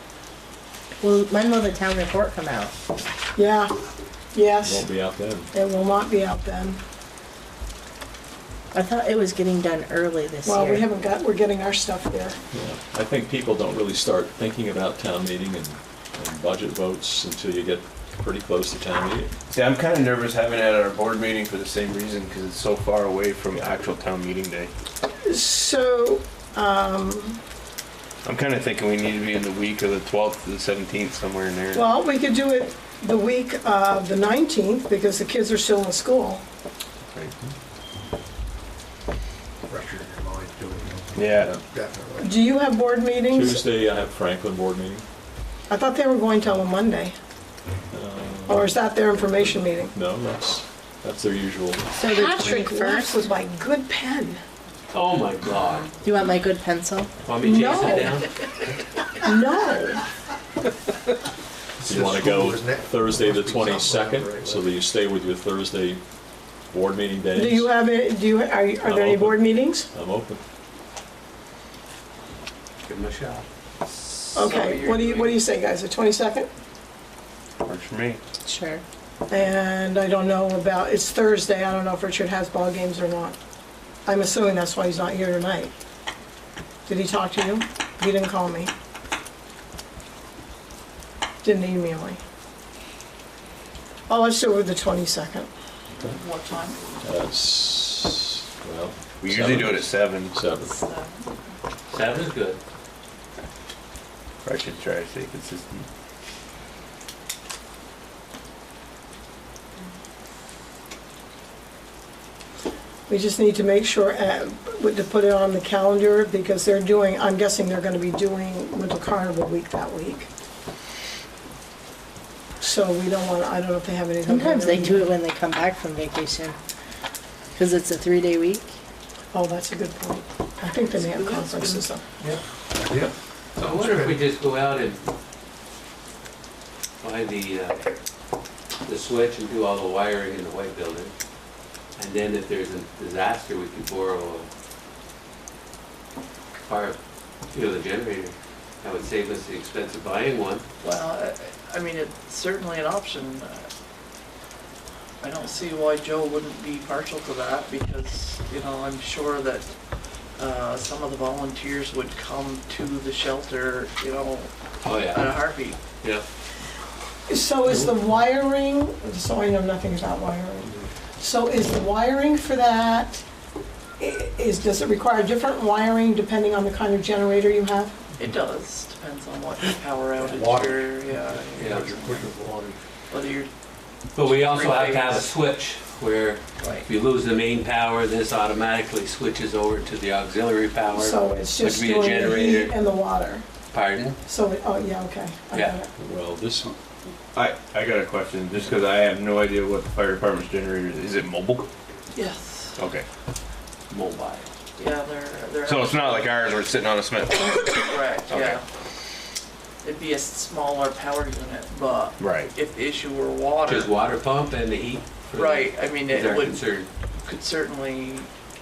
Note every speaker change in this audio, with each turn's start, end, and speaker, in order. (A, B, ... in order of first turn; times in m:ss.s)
0:01.0-0:02.8 A
0:03.4-0:03.7 B
0:04.3-0:04.9 B
0:04.6-0:05.5 C
0:05.5-0:06.8 B
0:08.7-0:10.8 A
0:10.4-0:12.4 B
0:12.5-0:19.3 C
0:19.5-0:24.7 D
0:25.2-0:27.4 B
0:28.2-0:31.8 D
0:31.7-0:36.4 B
0:39.7-0:42.3 E
0:41.2-0:41.6 D
0:42.2-0:43.6 B
0:43.3-0:45.0 C
0:45.7-0:47.1 B
0:47.9-0:51.9 C
0:48.5-0:49.9 B
0:52.0-0:53.2 A
0:52.1-0:54.4 B
0:54.9-0:55.9 F
0:56.0-0:57.1 A
0:57.2-0:58.7 F
0:57.4-0:58.2 B
0:59.2-1:00.0 B
1:01.8-1:04.7 E
1:01.8-1:06.0 C
1:06.7-1:07.7 C
1:07.3-1:09.9 B
1:08.8-1:10.4 C
1:12.8-1:13.4 F
1:14.1-1:15.4 G
1:14.3-1:16.5 B
1:17.6-1:18.2 D
1:18.5-1:18.8 A
1:19.3-1:23.4 B
1:24.1-1:25.7 B
1:26.9-1:28.7 B
1:31.4-1:32.2 B
1:34.1-1:35.5 B
1:35.9-1:36.2 C
1:36.0-1:37.0 G
1:37.0-1:40.7 C
1:39.2-1:40.4 D
1:40.6-1:41.3 G
1:41.9-1:42.6 F
1:44.4-1:45.9 D
1:53.1-2:00.3 B
2:02.6-2:05.1 B
2:04.3-2:06.6 A
2:07.6-2:08.7 A
2:09.3-2:12.0 B
2:10.9-2:11.9 G
2:12.2-2:14.2 E
2:13.6-2:15.1 F
2:17.0-2:17.8 F
2:18.8-2:21.1 F
2:22.0-2:24.5 F
2:26.6-2:27.0 F
2:27.5-2:30.6 F
2:30.8-2:33.7 G
2:35.2-2:39.7 G
2:40.4-2:44.5 G
2:44.8-2:45.4 F
2:45.0-2:45.8 G
2:47.3-2:53.2 B
2:54.0-2:58.0 B
2:58.2-3:02.3 G
3:00.2-3:02.8 E
3:01.6-3:01.9 F
3:03.1-3:03.5 G
3:04.2-3:12.7 F
3:04.2-3:05.3 G
3:06.6-3:06.8 G
3:10.9-3:13.4 B
3:13.7-3:14.2 F
3:14.2-3:15.9 B
3:16.0-3:16.7 C
3:17.3-3:21.7 D
3:22.1-3:22.8 G
3:22.8-3:23.0 D
3:23.9-3:24.5 F
3:24.8-3:26.4 G
3:25.6-3:28.6 D
3:27.4-3:28.6 G
3:29.8-3:34.0 G
3:32.2-3:32.5 D
3:33.7-3:36.9 F
3:35.3-3:36.6 G
3:37.2-3:38.3 G